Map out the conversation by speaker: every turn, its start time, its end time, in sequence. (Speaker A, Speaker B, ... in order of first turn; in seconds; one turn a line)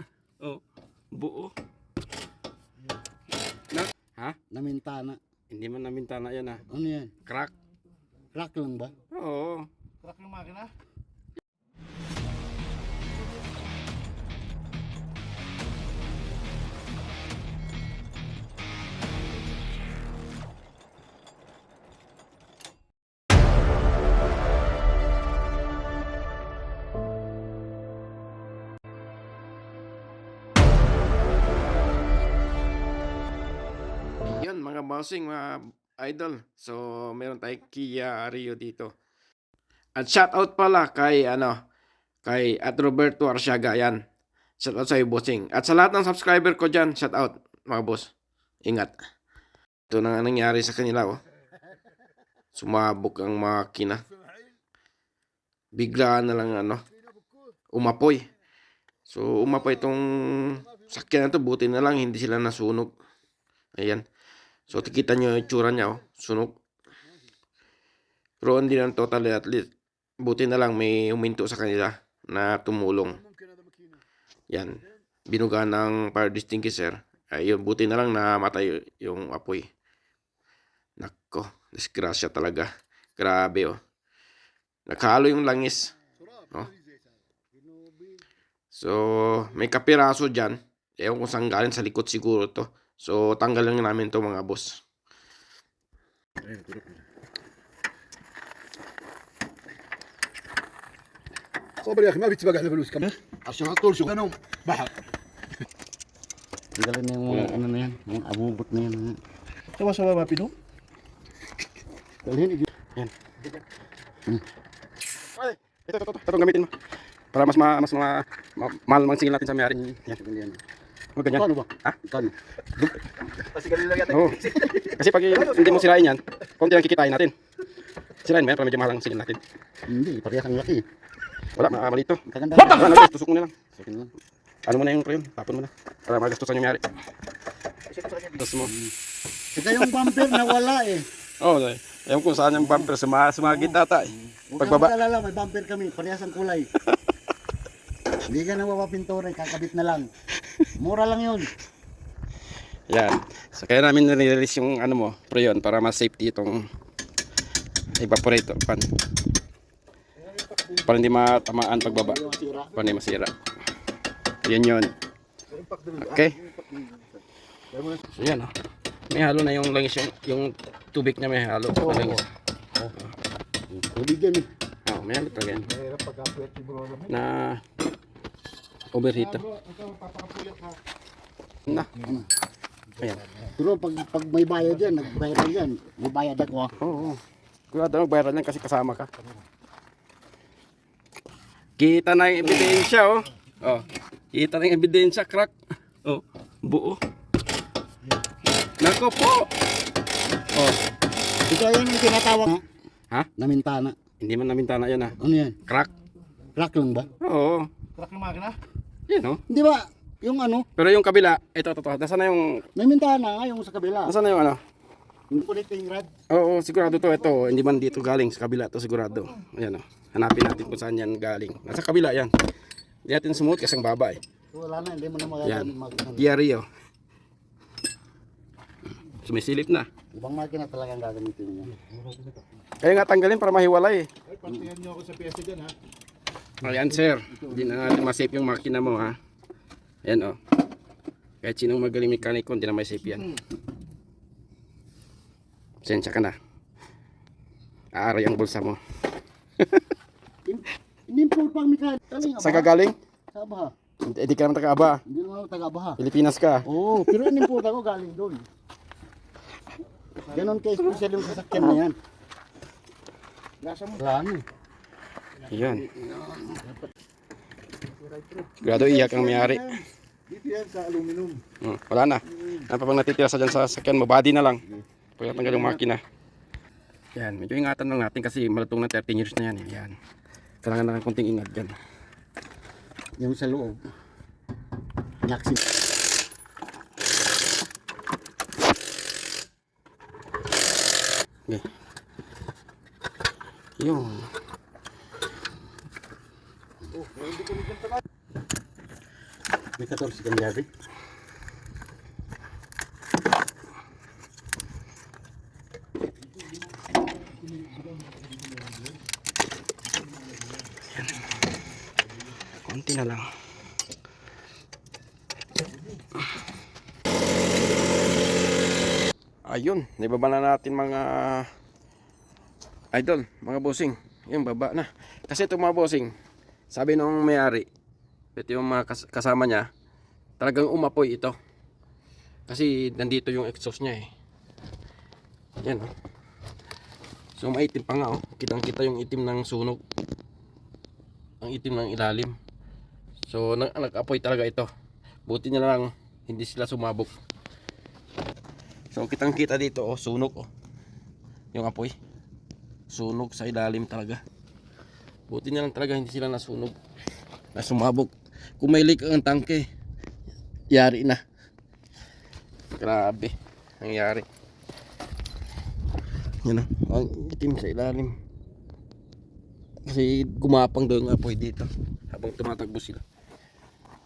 Speaker A: 1.1-1.5
Speaker A: 3.7-4.4
Speaker B: 4.5-5.2
Speaker A: 5.5-6.7
Speaker B: 6.7-7.1
Speaker A: 7.2-7.5
Speaker B: 8.3-8.9
Speaker A: 9.1-9.7
Speaker C: 10.0-10.7
Speaker A: 34.2-38.9
Speaker A: 40.0-41.6
Speaker A: 42.2-44.0
Speaker A: 44.6-48.1
Speaker A: 48.6-48.9
Speaker A: 49.9-51.2
Speaker A: 52.5-54.0
Speaker A: 55.7-56.8
Speaker A: 57.7-58.3
Speaker A: 59.0-62.9
Speaker A: 63.8-64.0
Speaker A: 64.7-66.6
Speaker A: 68.4-73.2
Speaker A: 74.5-79.7
Speaker A: 81.0-83.8
Speaker A: 84.9-86.0
Speaker B: 87.5-88.2
Speaker A: 88.7-94.8
Speaker C: 101.8-104.9
Speaker B: 106.7-109.2
Speaker A: 107.3-107.6
Speaker C: 109.7-110.5
Speaker B: 112.2-112.7
Speaker A: 115.2-116.7
Speaker A: 117.3-120.1
Speaker B: 119.7-120.6
Speaker A: 121.2-122.0
Speaker B: 121.3-122.9
Speaker C: 123.7-123.9
Speaker A: 123.8-127.3
Speaker A: 128.2-129.4
Speaker B: 129.9-130.8
Speaker A: 131.6-133.7
Speaker B: 132.3-133.0
Speaker B: 133.8-134.1
Speaker A: 134.7-136.9
Speaker A: 138.1-138.7
Speaker B: 138.6-138.9
Speaker B: 139.5-141.1
Speaker A: 141.4-144.9
Speaker B: 142.5-142.9
Speaker B: 143.5-146.7
Speaker B: 148.2-150.1
Speaker B: 150.8-151.5
Speaker A: 152.9-156.7
Speaker A: 158.0-158.9
Speaker A: 160.7-163.3
Speaker B: 161.7-162.8
Speaker A: 164.4-164.9
Speaker C: 165.6-166.0
Speaker A: 165.9-166.4
Speaker A: 168.1-168.5
Speaker A: 169.1-172.2
Speaker B: 171.8-172.2
Speaker B: 173.7-174.5
Speaker A: 174.8-175.7
Speaker C: 175.7-177.1
Speaker A: 177.0-177.6
Speaker A: 178.9-179.5
Speaker C: 179.4-180.8
Speaker A: 181.7-181.9
Speaker B: 182.0-182.3
Speaker B: 183.5-186.8
Speaker A: 186.8-187.2
Speaker A: 187.7-189.1
Speaker A: 191.8-195.5
Speaker A: 196.0-197.0
Speaker A: 198.8-199.5
Speaker B: 201.5-202.6
Speaker B: 203.4-203.9
Speaker A: 204.2-205.9
Speaker B: 205.2-205.6
Speaker B: 206.6-207.1
Speaker A: 207.2-207.7
Speaker C: 208.0-208.6
Speaker A: 209.1-209.4
Speaker B: 209.5-210.7
Speaker A: 210.8-212.6
Speaker B: 212.7-214.2
Speaker A: 214.1-214.6
Speaker B: 215.3-216.1
Speaker A: 216.3-222.3
Speaker A: 223.0-224.2
Speaker B: 224.5-226.3
Speaker A: 225.4-226.7
Speaker A: 229.1-229.9
Speaker B: 230.1-231.8
Speaker A: 232.8-234.1
Speaker C: 234.4-235.7
Speaker A: 236.6-239.2
Speaker A: 240.0-240.4
Speaker A: 241.4-243.4
Speaker A: 245.8-246.3
Speaker A: 247.9-248.8
Speaker B: 250.4-252.7
Speaker A: 252.4-252.9
Speaker B: 253.3-253.7
Speaker A: 254.0-255.0
Speaker B: 255.0-256.0
Speaker A: 256.0-256.7
Speaker B: 256.6-258.4
Speaker B: 260.2-261.9
Speaker B: 263.6-264.4
Speaker A: 265.5-265.9
Speaker B: 265.7-266.8
Speaker A: 268.6-269.8
Speaker B: 268.6-269.8
Speaker C: 270.3-271.4
Speaker A: 271.6-274.6
Speaker A: 275.2-276.0
Speaker A: 277.1-279.9
Speaker A: 280.6-281.7
Speaker B: 283.2-283.8
Speaker B: 285.2-285.6
Speaker A: 293.8-294.3
Speaker B: 299.8-300.7
Speaker A: 310.9-311.3
Speaker A: 312.4-313.2
Speaker A: 319.4-321.5
Speaker A: 322.9-326.1
Speaker A: 326.7-327.7
Speaker A: 328.3-329.7
Speaker A: 330.4-331.4
Speaker A: 332.5-334.1
Speaker A: 335.6-335.9
Speaker A: 337.4-339.8
Speaker A: 341.4-342.4
Speaker A: 343.3-344.7
Speaker A: 345.2-347.1
Speaker A: 348.9-350.5
Speaker A: 351.5-351.9
Speaker A: 352.9-354.2
Speaker A: 355.3-356.8
Speaker A: 357.5-359.7
Speaker A: 360.7-361.2
Speaker A: 362.8-364.2
Speaker A: 366.4-368.1
Speaker A: 369.9-373.0